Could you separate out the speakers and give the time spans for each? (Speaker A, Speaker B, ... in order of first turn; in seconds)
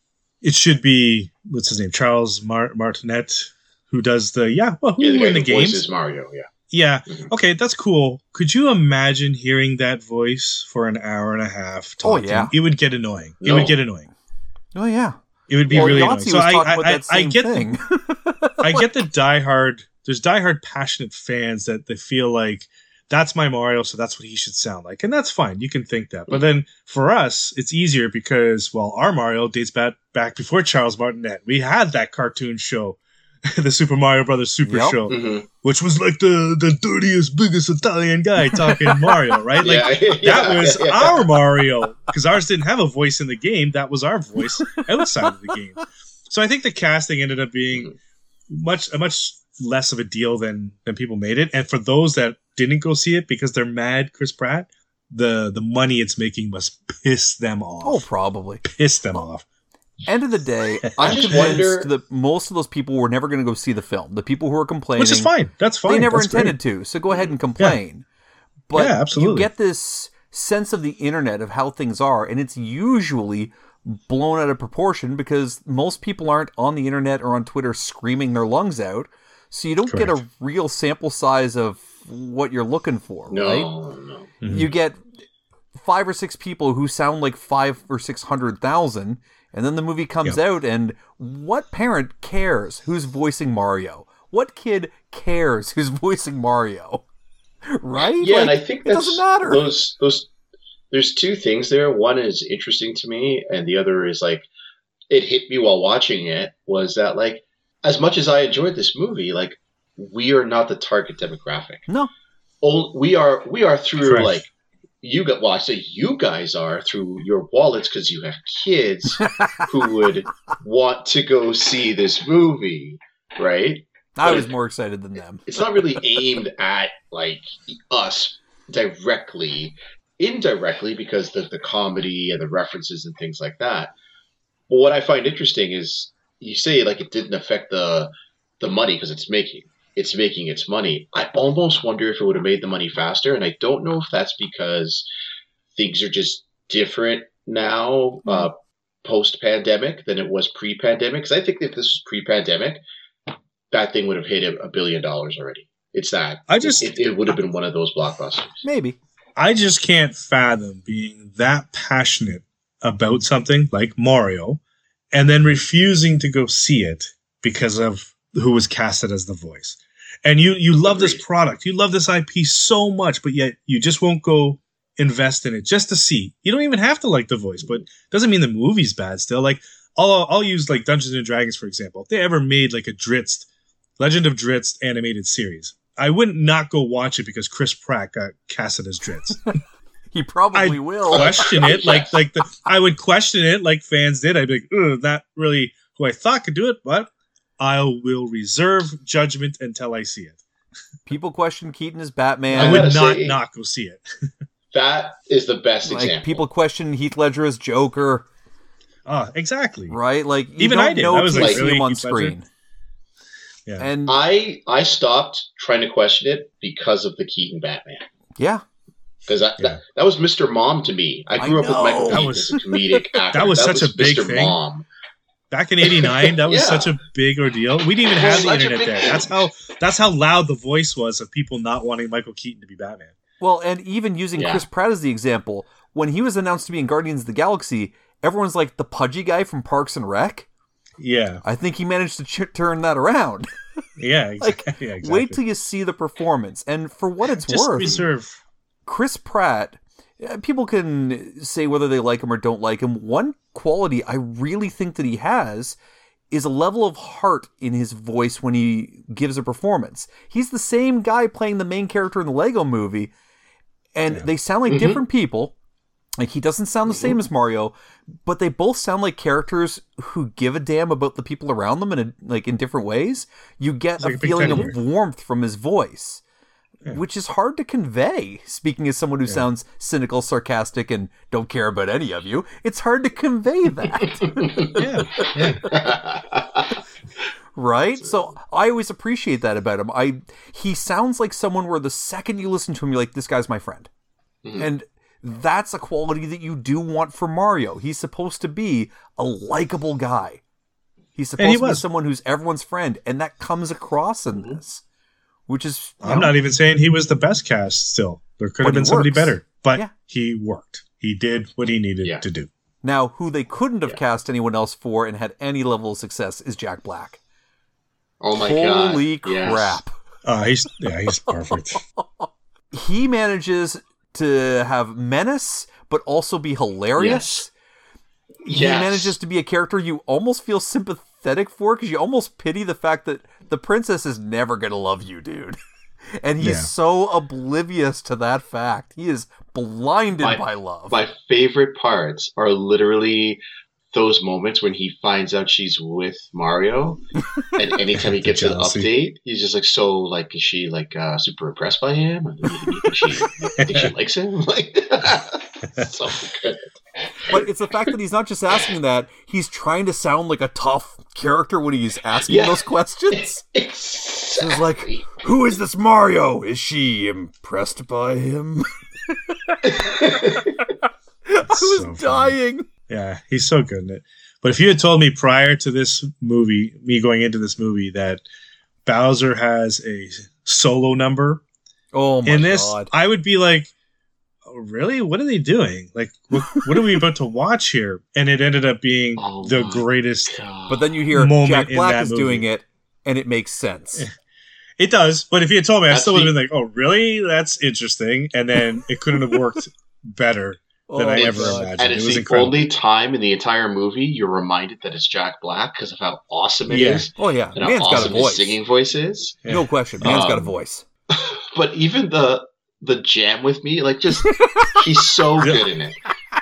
Speaker A: 0.4-5.8, 6.7-14.1, 15.5-17.7, 18.6-47.9, 48.5-58.0, 58.6-59.5, 61.0-61.6, 65.0-66.5, 68.7-69.5, 79.9-80.2, 84.4-84.7, 114.0-114.4, 156.5-156.9, 159.4-164.6, 165.1-183.5, 184.0-189.4, 190.5-200.4, 202.6-204.0, 209.1-209.9, 210.6-212.3, 222.1-222.6, 223.3-224.6, 225.5-233.1, 241.0-241.4, 244.0-245.4, 247.4-248.4, 274.0-274.8, 284.8-285.7, 301.4-301.8, 306.0-312.5, 320.2-321.8, 336.4-336.7, 348.0-348.9, 353.6-353.9, 371.5-372.3, 372.9-378.2, 378.8-381.4, 382.2-383.7, 384.4-390.4, 391.1-392.4, 394.8-402.6, 406.7-407.1, 409.4-410.2, 415.4-415.6
Speaker B: 5.0-6.5, 7.1-7.3, 13.4-13.8, 15.7-16.1, 35.1-35.5, 39.6-41.4, 61.0-61.9, 83.3-84.3, 98.2-100.3, 100.9-104.5, 105.1-111.9, 112.6-114.5, 115.0-124.5, 125.5-133.9, 134.7-145.1, 145.8-152.8, 153.7-158.6, 170.8-171.2, 191.1-192.1, 202.5-203.4, 204.7-206.4, 211.3-211.6, 214.1-218.1, 219.3-224.8, 225.8-226.9, 228.1-229.5, 234.4-234.6, 264.7-265.0, 266.9-267.1, 284.0-286.8, 304.3-304.6, 318.2-319.8, 327.0-327.4, 328.5-329.1, 340.2-343.4, 343.9-347.0, 347.5-356.6, 357.1-357.4, 362.3-362.6, 363.1-365.2, 369.6-370.5, 389.2-391.0, 395.9-396.3, 401.1-409.4, 410.0-410.5, 411.1-416.0
Speaker C: 12.0-12.5, 14.7-15.2, 15.7-18.9, 34.6-35.0, 57.8-58.6, 60.1-65.3, 65.9-68.0, 68.7-83.7, 84.5-85.0, 85.7-97.0, 97.7-99.7, 119.2-119.6, 124.2-125.5, 158.6-158.9, 190.1-191.5, 201.1-202.9, 205.8-208.2, 209.9-212.4, 213.8-214.2, 218.4-218.6, 221.4-222.9, 233.4-240.5, 241.4-243.5, 244.4-247.9, 248.8-255.8, 256.3-263.1, 263.9-265.5, 266.2-267.7, 268.2-276.2, 276.9-285.3, 287.6-293.9, 294.6-300.4, 301.1-304.8, 305.5-306.3, 308.6-309.9, 312.8-317.2, 318.4-319.9, 322.2-327.5, 328.4-335.6, 336.2-341.0, 357.3-363.4, 364.3-370.7, 371.3-372.7, 381.9-382.9, 390.7-394.1, 400.9-401.8, 407.2-408.6, 409.5-410.8, 414.2-414.8